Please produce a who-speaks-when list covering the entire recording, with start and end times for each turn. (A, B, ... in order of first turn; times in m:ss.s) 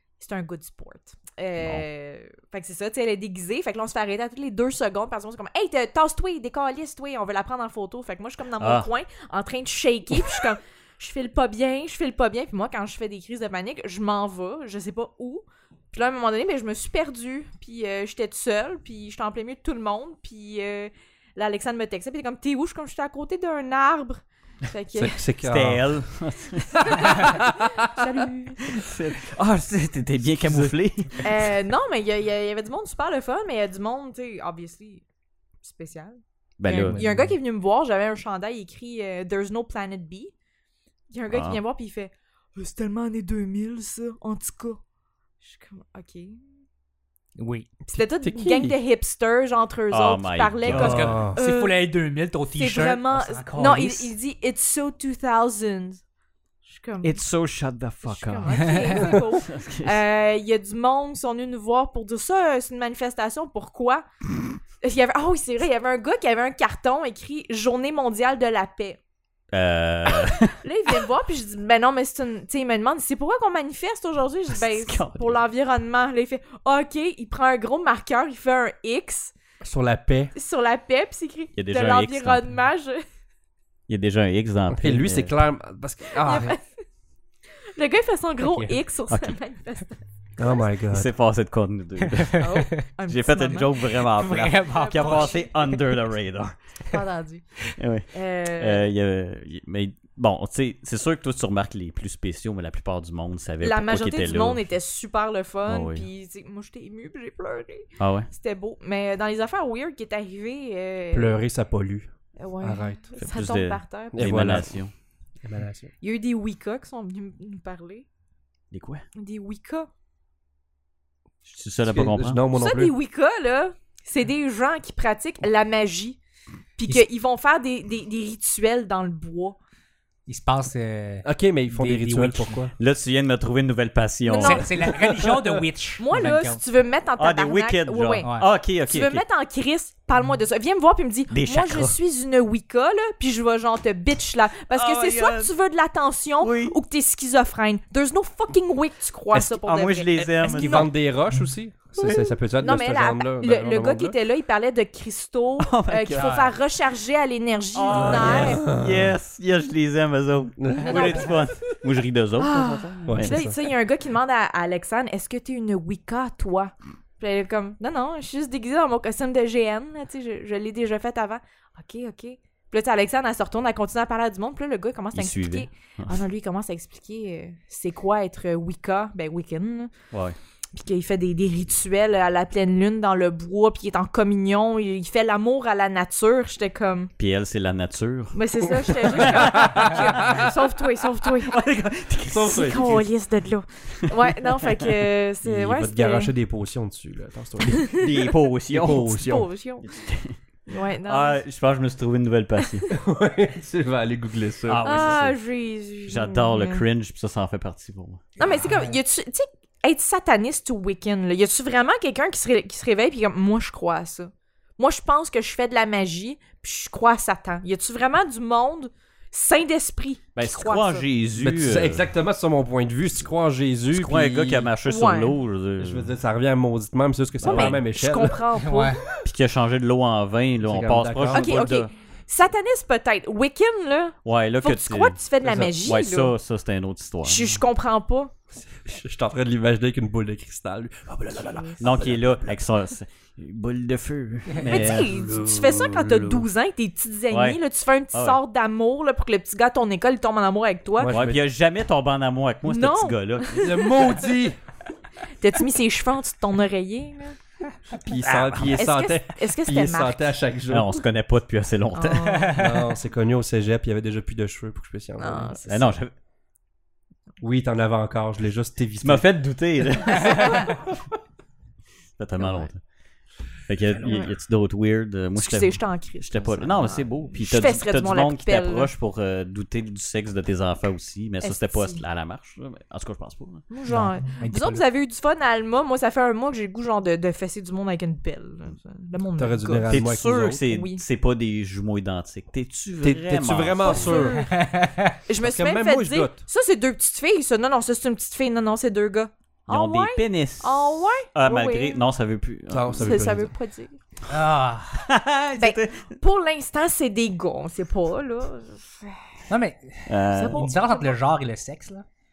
0:00.2-0:25.2 A
0:01.6-0:01.8 B
0:08.6-0:08.9 B
0:24.9-0:25.9 C
0:25.4-0:27.4 B
0:26.7-0:29.0 A
0:27.4-0:27.7 C
0:28.7-0:31.5 B
0:30.4-0:30.7 D
0:31.2-0:35.0 A
0:35.6-0:40.3 A
0:36.6-0:37.1 B
0:36.8-0:37.3 D
0:41.1-0:44.8 A
0:41.3-0:41.6 B
0:45.4-0:46.4 A
0:47.4-0:47.7 D
0:47.9-0:51.8 A
0:47.9-0:48.8 C
0:49.9-0:51.2 B
0:50.6-0:54.1 D
0:51.0-0:51.4 C
0:52.6-0:56.0 A
0:56.6-0:57.2 A
0:57.0-1:00.0 B
0:58.0-1:04.3 A
0:58.5-0:58.8 D
1:04.8-1:09.0 A
1:09.5-1:11.0 B
1:10.1-1:19.3 A
1:14.5-1:15.4 B
1:19.6-1:20.3 C
1:20.3-1:23.0 A
1:21.6-1:22.5 B
1:23.9-1:25.3 B
1:24.7-1:26.5 C
1:26.2-1:26.7 A
1:27.6-1:30.0 A
1:28.5-1:28.8 D
1:29.1-1:29.3 B
1:30.4-1:31.1 C
1:30.9-1:36.5 B
1:32.1-1:32.8 D
1:32.4-1:33.8 A
1:34.1-1:35.5 D
1:34.7-1:35.5 A
1:36.9-1:38.8 A
1:37.7-1:44.8 B
1:43.6-1:51.3 A
1:45.7-1:46.1 B
1:48.0-1:48.3 B
1:51.1-1:52.1 C
1:52.4-1:54.3 A
1:52.6-1:53.0 C
1:53.2-1:54.9 B
1:54.1-1:54.8 C
1:55.4-1:55.9 C
1:56.0-1:58.0 A
1:58.7-1:59.0 B
1:59.2-1:59.9 A
2:01.4-2:02.4 B
2:01.9-2:02.9 C
2:02.5-2:06.2 A
2:06.8-2:09.6 A
2:10.3-2:12.6 D
2:11.2-2:12.7 C
2:12.8-2:14.7 B
2:14.3-2:14.8 A
2:14.4-2:16.6 D
2:14.9-2:15.5 C
2:16.0-2:18.3 A
2:17.2-2:19.2 B
2:18.9-2:30.9 A
2:21.3-2:22.0 B
2:24.7-2:25.5 B
2:26.4-2:26.8 B
2:29.3-2:30.9 B
2:30.6-2:34.2 C
2:32.0-2:38.7 A
2:35.6-2:36.5 B
2:36.1-2:36.5 D
2:37.7-2:43.4 B
2:37.9-2:39.2 C
2:40.6-2:41.5 C
2:40.8-2:41.5 A
2:42.4-2:59.9 A
2:43.1-2:43.6 C
2:55.1-2:56.2 B
3:00.1-3:00.4 B
3:00.7-3:07.1 A
3:07.2-3:10.5 B
3:08.3-3:11.6 A
3:09.2-3:10.4 C
3:11.2-3:13.0 B
3:12.2-3:13.1 C
3:12.4-3:16.3 A
3:15.4-3:18.0 C
3:17.8-3:20.4 B
3:17.8-3:18.1 A
3:18.7-3:19.5 C
3:18.8-3:19.9 A
3:20.7-3:21.4 A
3:21.0-3:22.9 B
3:22.9-3:25.2 C
3:24.7-3:25.4 B
3:24.8-3:26.8 A
3:26.1-3:28.2 B
3:28.4-3:41.1 A
3:40.4-3:42.1 B
3:41.4-3:44.7 C
3:43.9-3:46.1 B
3:44.8-3:45.4 A
3:45.8-3:48.4 C
3:47.4-3:47.8 B
3:47.4-3:49.0 A
3:48.5-3:49.0 D
3:49.2-3:51.9 B
3:50.6-3:51.6 C
3:51.3-3:56.3 A
3:54.2-3:55.2 B
3:55.4-3:55.9 C
3:55.8-3:57.6 B
3:57.2-3:58.3 A
3:58.6-4:02.6 C
4:01.8-4:05.3 B
4:04.5-4:04.8 D
4:04.7-4:11.1 A
4:05.0-4:06.4 C
4:07.3-4:07.6 B
4:08.1-4:08.4 B
4:11.0-4:11.4 C
4:11.0-4:14.0 B
4:12.7-4:14.2 A
4:13.5-4:14.6 C
4:15.4-4:17.4 A
4:17.9-4:20.9 C
4:18.2-4:18.9 B
4:18.8-4:20.3 A
4:20.7-4:22.5 B
4:21.9-4:22.6 A
4:22.3-4:22.6 D
4:22.5-4:25.6 C
4:25.2-4:26.0 A
4:25.6-4:26.1 B
4:27.4-4:29.2 C
4:29.0-4:30.9 B
4:32.2-4:32.8 B
4:32.4-4:32.7 A
4:33.7-4:43.6 B
4:34.0-4:34.3 A
4:35.4-4:38.9 A
4:41.4-4:42.0 A
4:43.7-4:51.0 A
4:43.9-4:44.8 D
4:49.4-4:50.6 C
4:49.9-4:54.3 B
4:53.0-4:54.4 C
4:53.8-4:54.6 A
4:54.4-4:55.2 D
4:55.3-5:02.0 A
4:55.4-4:56.4 C
4:59.7-5:03.4 B
5:02.7-5:03.5 C
5:03.0-5:04.0 A
5:04.3-5:05.0 D
5:04.9-5:06.1 B
5:05.6-5:09.1 A
5:09.5-5:12.0 D
5:10.1-5:10.7 B
5:10.3-5:11.1 A